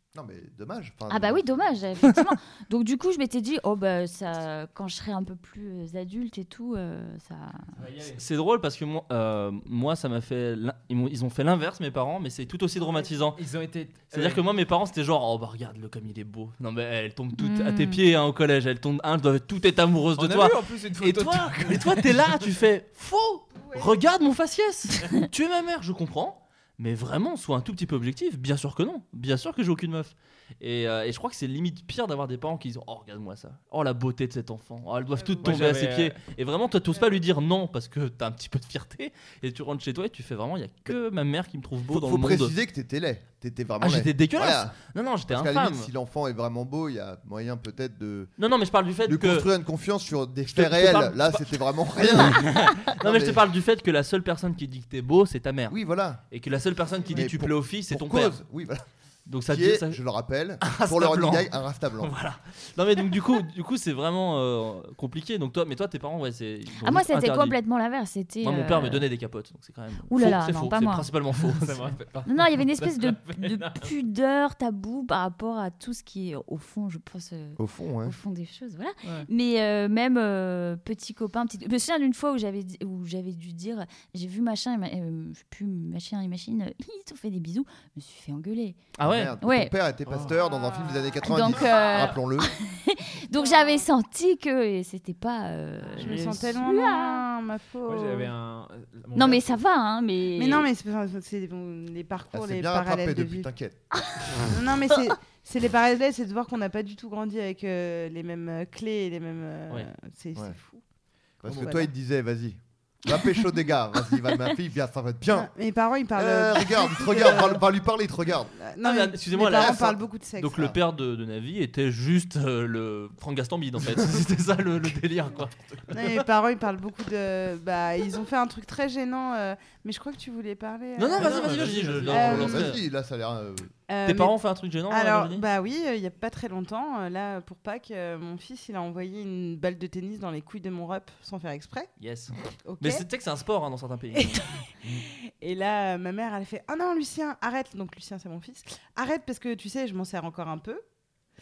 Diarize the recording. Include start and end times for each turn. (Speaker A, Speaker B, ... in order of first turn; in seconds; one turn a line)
Speaker A: 0.1-1.8
Speaker B: 1.1-7.7
Speaker C: 7.8-8.2
Speaker D: 8.1-13.4
Speaker C: 12.9-14.4
Speaker D: 14.1-42.5
Speaker B: 17.4-18.0
Speaker C: 20.2-22.3
Speaker E: 23.5-23.9
Speaker E: 35.1-35.7
Speaker C: 35.4-36.2
Speaker A: 41.9-48.3
Speaker D: 43.8-45.9
Speaker D: 48.4-49.5
Speaker A: 49.0-53.4
Speaker D: 50.5-55.8
Speaker A: 55.7-56.2
Speaker D: 56.3-58.4
Speaker A: 57.1-58.8
Speaker D: 59.3-60.0
Speaker A: 59.5-62.1
Speaker D: 60.6-67.6
Speaker B: 66.8-69.0
Speaker D: 68.4-71.9
Speaker B: 70.1-71.1
Speaker C: 71.4-73.9
Speaker B: 72.2-88.8
Speaker A: 77.6-78.2
Speaker D: 89.0-89.3
Speaker A: 89.0-92.5
Speaker B: 89.4-89.7
Speaker C: 90.0-90.4
Speaker E: 90.7-91.1
Speaker B: 91.2-97.2
Speaker E: 93.3-93.8
Speaker E: 96.0-98.3
Speaker D: 96.0-96.4
Speaker C: 97.8-99.5
Speaker B: 99.1-100.7
Speaker E: 100.3-103.5
Speaker A: 102.3-103.8
Speaker E: 104.4-110.8
Speaker E: 111.4-111.9
Speaker A: 111.4-115.5
Speaker E: 115.3-117.6
Speaker A: 116.1-118.5
Speaker E: 118.6-120.6
Speaker D: 118.8-126.2
Speaker A: 123.9-124.2
Speaker E: 125.9-132.8
Speaker D: 131.0-132.8
Speaker A: 131.2-133.7
Speaker E: 133.9-134.3
Speaker D: 134.0-135.4
Speaker E: 134.9-141.9
Speaker D: 142.0-144.4
Speaker E: 142.7-143.0
Speaker E: 144.1-150.8